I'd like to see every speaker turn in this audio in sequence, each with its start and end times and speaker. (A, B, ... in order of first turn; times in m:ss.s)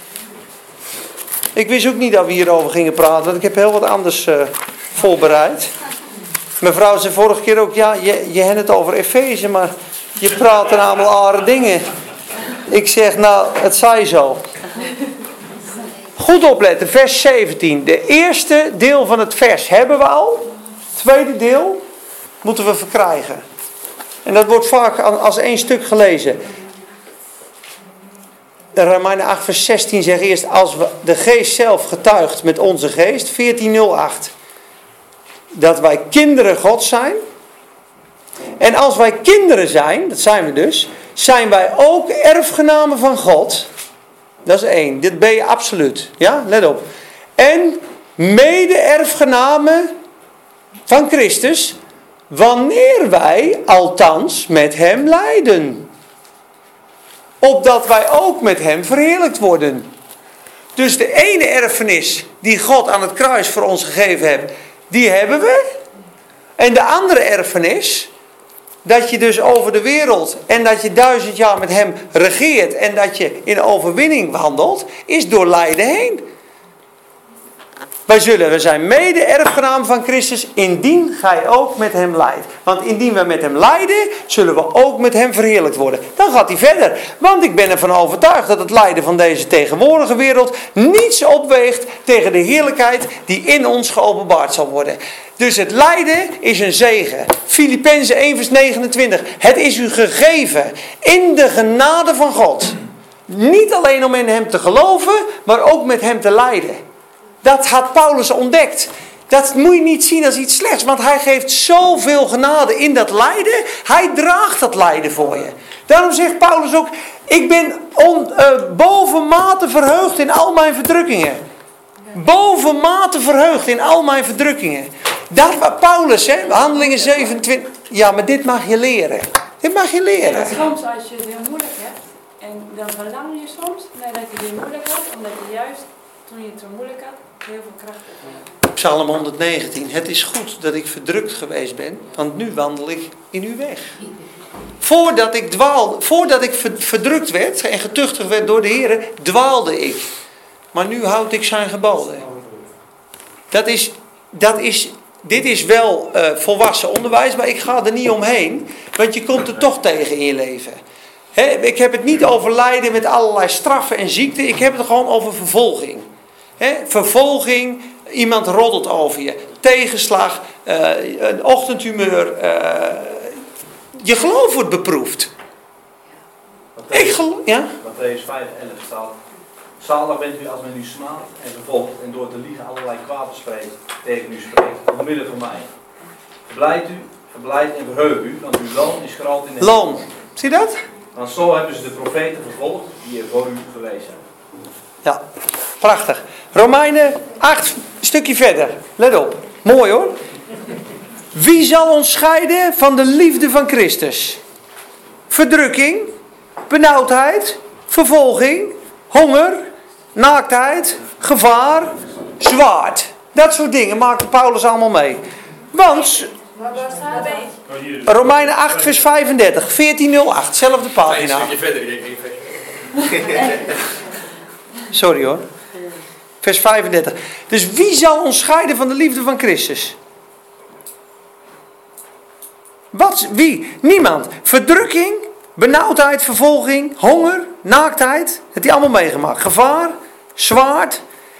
0:01.6-0:05.7 A
0:06.6-0:11.9 A
0:12.7-0:14.4 A
0:16.2-0:21.8 A
0:22.4-0:23.4 A
0:24.2-0:26.4 A
0:28.7-0:34.3 A
0:35.5-0:37.2 A
0:38.6-0:43.7 A
0:44.4-0:46.8 A
0:47.4-0:49.9 A
0:50.9-0:51.8 A
0:52.3-0:55.9 A
0:57.4-0:59.9 A
1:00.8-1:05.8 A
1:06.6-1:08.1 A
1:08.8-1:16.2 A
1:18.1-1:42.8 A
1:43.3-1:46.8 A
1:47.4-2:01.4 A
2:02.1-2:10.6 A
2:10.2-2:18.5 B
2:18.7-2:24.0 A
2:24.8-2:30.1 A
2:30.7-2:32.3 A
2:33.5-2:40.8 A
2:41.3-2:46.1 A
2:46.6-2:53.4 A
2:54.0-2:55.3 A
2:56.7-2:57.2 C
2:56.9-2:57.7 A
2:57.8-2:59.2 C
2:59.8-3:05.7 C
3:06.5-3:10.0 C
3:09.6-3:10.8 A
3:11.1-3:14.2 C
3:15.8-3:20.1 A
3:21.3-3:24.4 A
3:25.3-3:26.1 A
3:26.7-3:35.2 A
3:35.7-3:36.3 A
3:36.5-3:37.6 B
3:37.7-3:38.5 C
3:38.0-3:41.6 A
3:41.0-3:43.6 C
3:44.9-3:45.4 A
3:46.4-3:50.0 A
3:52.9-4:01.0 A